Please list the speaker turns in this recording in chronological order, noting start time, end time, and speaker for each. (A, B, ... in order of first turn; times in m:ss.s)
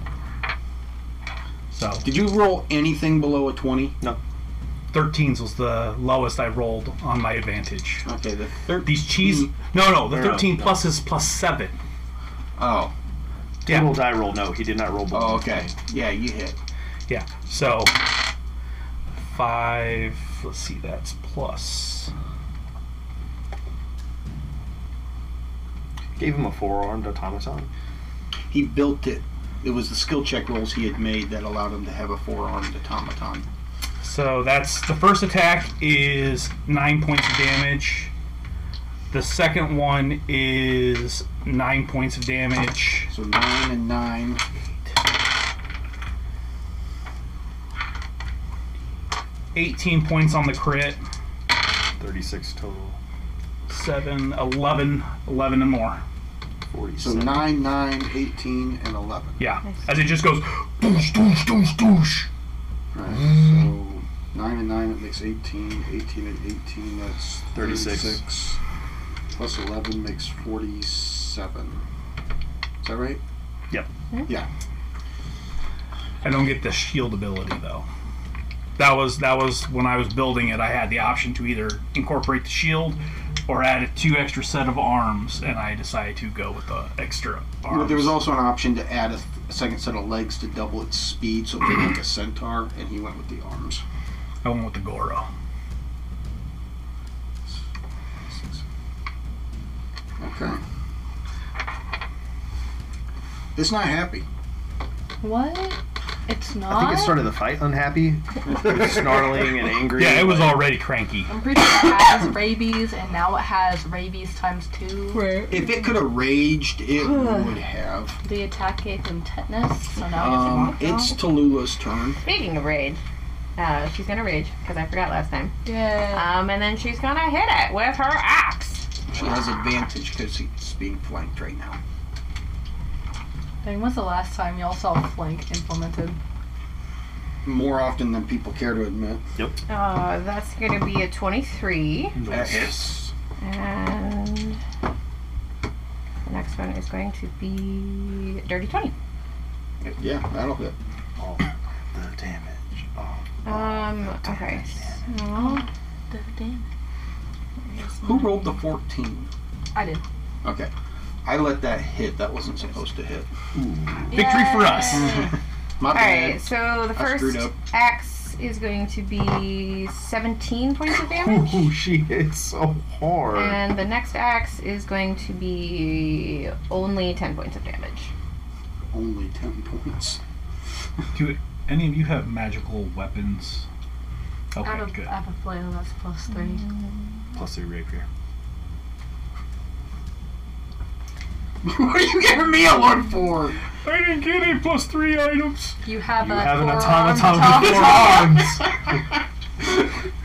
0:01.7-0:02.1 A
0:02.0-0:04.0 B
0:04.9-0:08.1 A
0:08.0-0:09.5 B
0:08.8-0:11.7 A
0:10.0-0:10.8 C
0:12.6-0:12.9 B
0:13.6-0:15.7 C
0:13.6-0:14.0 A
0:15.1-0:16.6 B
0:17.1-0:18.1 A
0:19.2-0:22.1 A
0:26.2-0:27.7 C
0:28.5-0:33.5 B
0:34.0-0:38.1 A
0:39.1-0:43.1 A
0:43.1-0:44.4 B
0:49.5-0:51.0 A
0:52.0-0:53.0 C
0:53.7-0:56.0 A
0:56.7-0:57.5 C
0:57.0-0:59.4 B
0:59.4-1:02.3 A
1:02.9-1:08.6 B
1:07.5-1:08.2 C
1:09.4-1:11.8 B
1:12.8-1:13.2 B
1:16.2-1:17.8 A
1:18.8-1:28.1 A
1:27.7-1:33.8 B
1:34.4-1:35.3 A
1:38.3-1:38.6 B
1:40.2-1:40.6 B
1:43.5-1:44.2 B
1:45.2-1:47.2 D
1:46.7-1:50.7 C
1:48.4-1:49.2 B
1:49.9-1:51.4 A
1:51.3-1:55.4 D
1:55.1-1:55.9 E
1:55.5-1:58.2 B
1:57.0-1:57.5 E
1:58.2-2:01.0 D
2:00.0-2:01.1 E
2:00.2-2:02.2 B
2:02.2-2:03.0 E
2:03.6-2:08.8 E
2:05.6-2:06.3 D
2:09.1-2:11.8 B
2:13.6-2:16.2 D
2:17.4-2:19.2 B
2:19.7-2:22.2 E
2:22.2-2:23.0 C
2:22.3-2:23.1 B
2:23.4-2:24.6 E
2:26.2-2:28.9 E
2:29.8-2:30.7 B
2:31.2-2:35.0 C
2:33.4-2:35.6 E
2:35.2-2:36.6 D
2:37.6-2:38.4 E
2:38.0-2:39.3 B
2:39.7-2:40.0 D
2:40.4-2:40.7 B
2:41.2-2:43.3 B
2:43.5-2:44.2 C
2:44.1-2:45.2 A
2:44.1-2:45.3 D
2:44.9-2:47.5 B
2:45.9-2:51.7 E
2:51.0-2:53.6 C
2:53.3-2:58.1 E
2:58.9-3:00.2 B
3:01.1-3:03.6 A
3:04.5-3:05.1 A
3:04.6-3:06.6 D
3:07.3-3:08.1 C
3:11.6-3:13.6 B
3:13.8-3:15.8 A
3:15.8-3:18.5 D
3:16.2-3:18.7 C